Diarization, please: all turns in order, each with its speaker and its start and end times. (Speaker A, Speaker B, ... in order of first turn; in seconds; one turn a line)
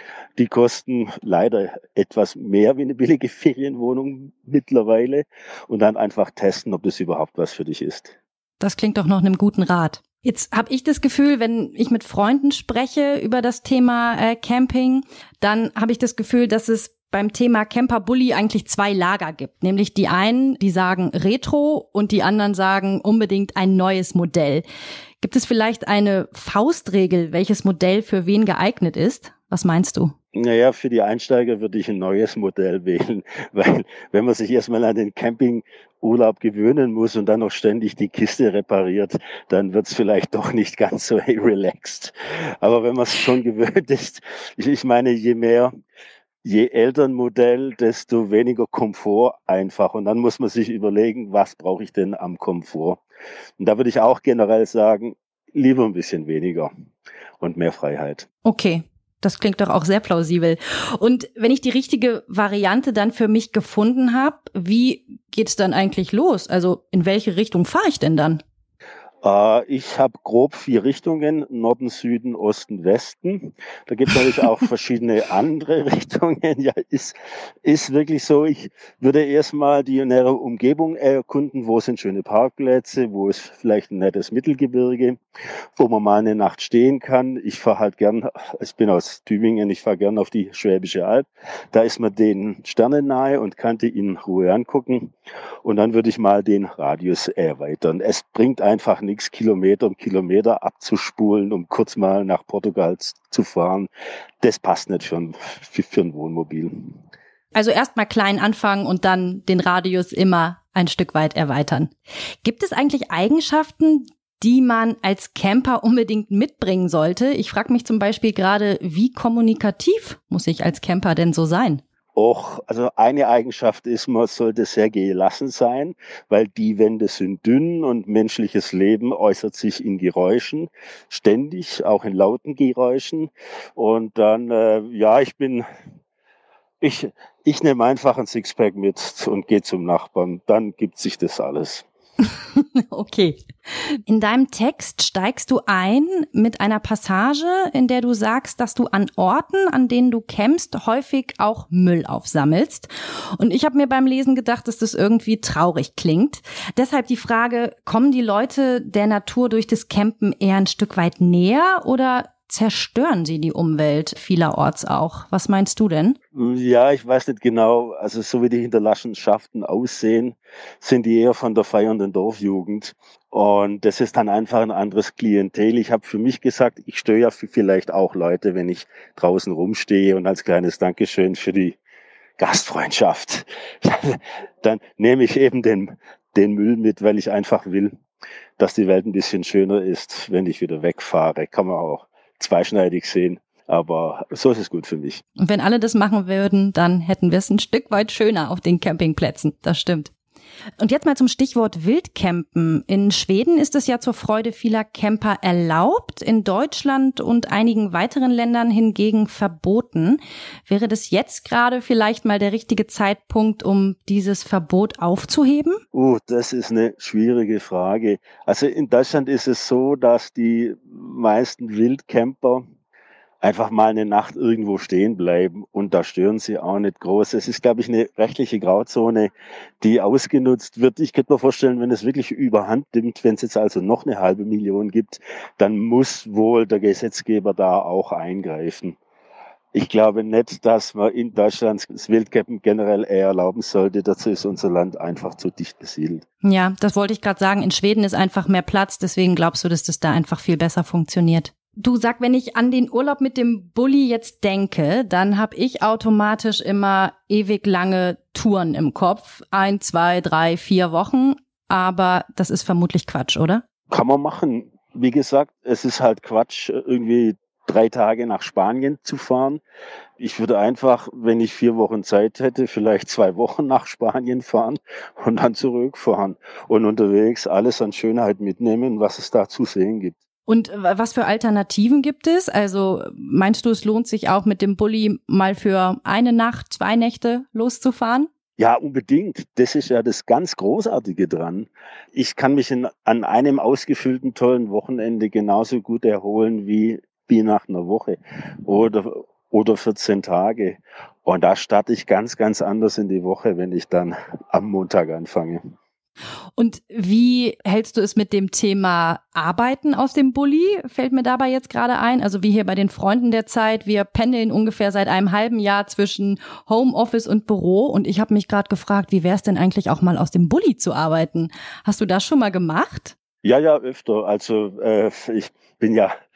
Speaker A: 0.4-8.1
Speaker B: 8.6-24.6
Speaker B: 25.2-30.1
Speaker A: 30.3-45.7
Speaker A: 46.4-53.0
Speaker A: 53.6-56.7
Speaker A: 57.4-58.2
Speaker B: 58.4-68.4
Speaker A: 69.2-85.2
Speaker A: 85.8-95.1
Speaker A: 95.6-103.9
Speaker A: 104.4-107.0
Speaker B: 107.5-111.9
Speaker B: 112.4-121.8
Speaker A: 122.2-135.6
Speaker A: 136.8-141.8
Speaker B: 142.2-166.2
Speaker A: 166.3-181.8
Speaker A: 182.4-187.9
Speaker A: 188.6-195.2
Speaker B: 195.4-200.1
Speaker B: 200.8-215.8
Speaker A: 215.9-222.6
Speaker A: 223.4-239.0
Speaker A: 239.7-246.2
Speaker B: 246.4-263.6
Speaker A: 263.9-269.6
Speaker A: 270.2-280.2
Speaker B: 280.5-288.3
Speaker A: 288.6-305.6
Speaker B: 306.6-323.1
Speaker A: 323.4-326.1